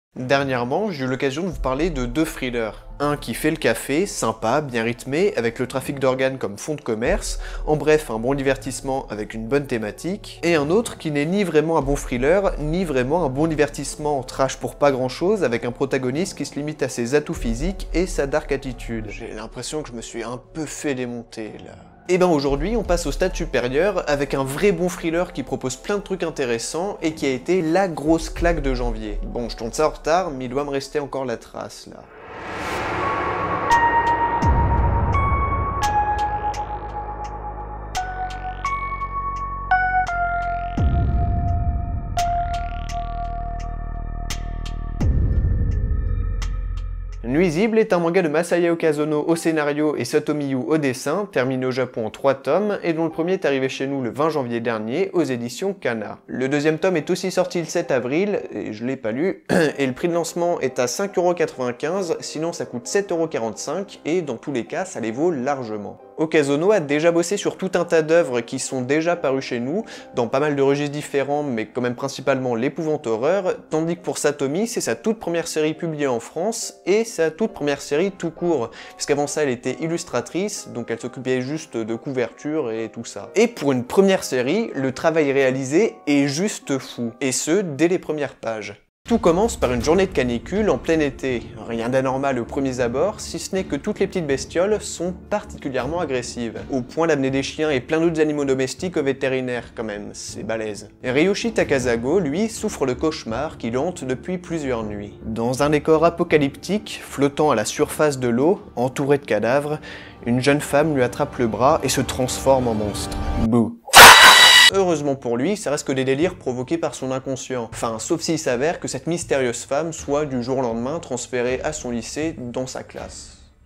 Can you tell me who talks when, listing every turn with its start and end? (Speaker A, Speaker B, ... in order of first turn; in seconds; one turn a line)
Speaker A: 0.2-32.1
Speaker A: 47.2-113.8
Speaker A: 114.7-123.5